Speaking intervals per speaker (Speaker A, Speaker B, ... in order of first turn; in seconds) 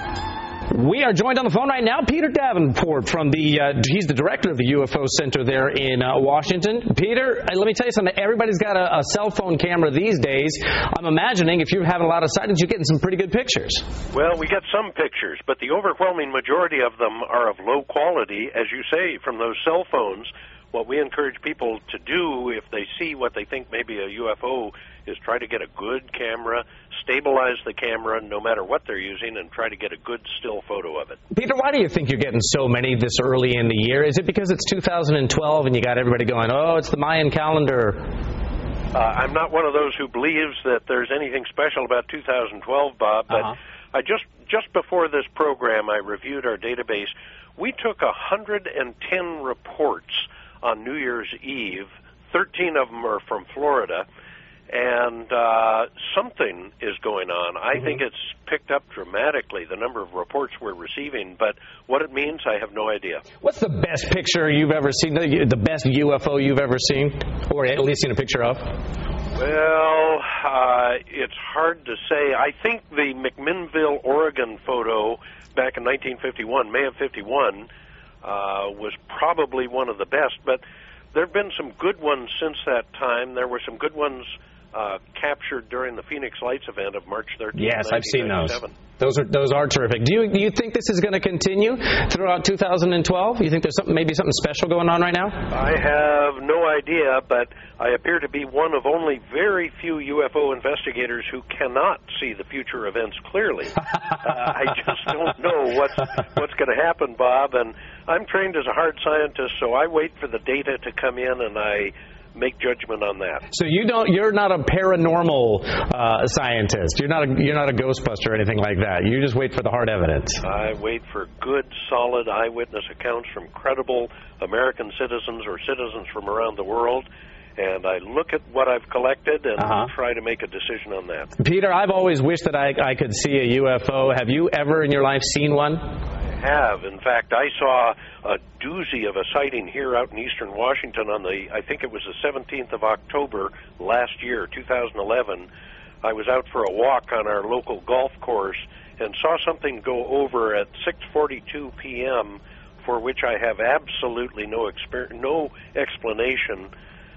Speaker A: 0.7-13.8, 31.3-38.0, 63.4-68.6, 87.5-95.4, 113.5-120.4, 129.6-129.9, 131.4-135.8
Speaker B: 14.1-31.2, 38.9-54.0, 54.7-63.2, 69.3-77.7, 78.2-80.6, 81.1-88.7, 95.5-113.4, 120.4-127.0, 127.6-131.3, 136.4-145.5, 146.0-156.7